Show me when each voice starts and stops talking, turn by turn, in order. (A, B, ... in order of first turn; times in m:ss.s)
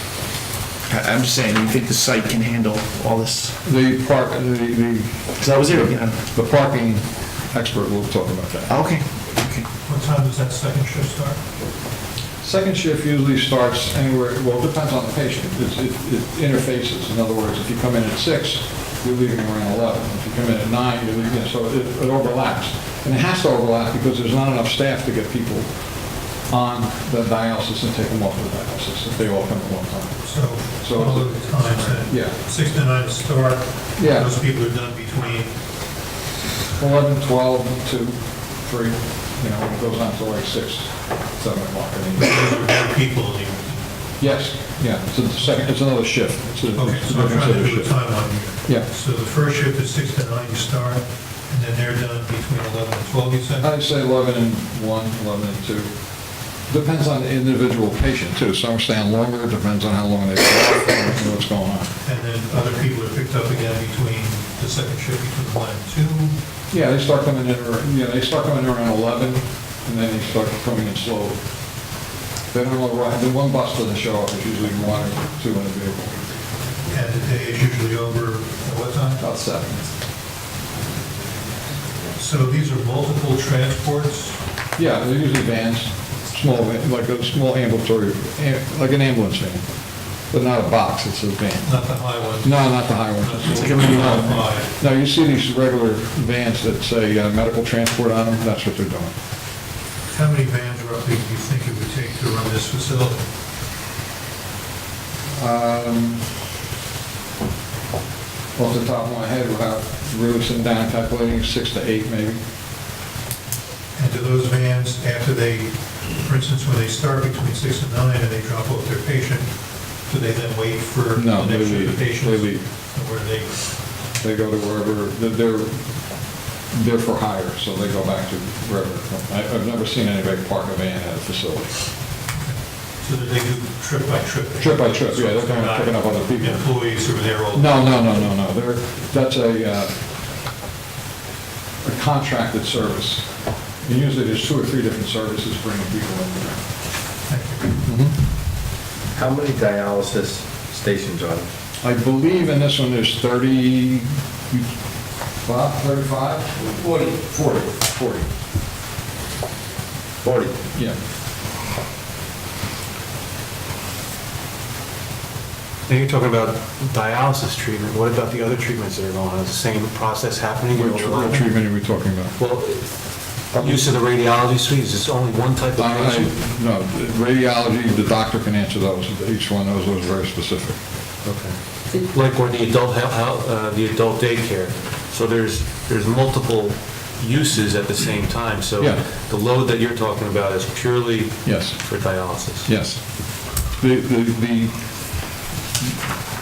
0:00.9-0:03.6 A
0:03.6-0:08.8 B
0:05.4-0:06.1 A
0:08.7-0:09.6 A
0:09.8-0:11.4 C
0:12.4-0:25.7 B
0:26.4-0:32.4 B
0:30.2-0:35.5 C
0:34.0-0:34.3 B
0:36.8-0:42.5 B
0:42.2-0:44.4 C
0:44.2-0:47.9 B
0:45.4-0:45.7 C
0:46.7-0:53.7 C
0:53.6-0:55.9 B
0:56.6-1:01.9 B
1:02.0-1:06.3 C
1:06.7-1:11.4 B
1:12.5-1:16.2 B
1:16.9-1:19.2 C
1:19.2-1:19.8 B
1:22.2-1:24.4 C
1:24.8-1:29.6 B
1:30.2-1:31.8 B
1:31.6-1:34.7 C
1:32.4-1:39.1 B
1:33.8-1:34.2 A
1:40.1-1:43.2 C
1:45.3-1:46.2 B
1:48.6-1:52.4 B
1:54.0-1:59.5 C
2:00.1-2:03.5 C
2:01.1-2:02.6 B
2:04.2-2:06.0 B
2:06.7-2:11.7 B
2:12.3-2:18.2 C
2:14.6-2:16.6 B
2:17.5-2:19.9 B
2:21.8-2:26.6 B
2:27.3-2:27.7 C
2:27.8-2:28.2 B
2:29.1-2:31.5 D
2:31.8-2:34.7 B
2:35.4-2:38.3 B
2:40.2-2:40.5 D
2:40.7-2:41.0 B
2:45.9-2:51.7 E
2:50.7-2:52.4 B
2:52.4-2:52.9 E
2:53.5-2:56.3 E
2:53.5-2:53.9 B
2:55.8-3:00.8 B
3:01.2-3:12.7 E
3:11.4-3:11.8 B
3:12.6-3:13.0 B
3:13.7-3:15.2 B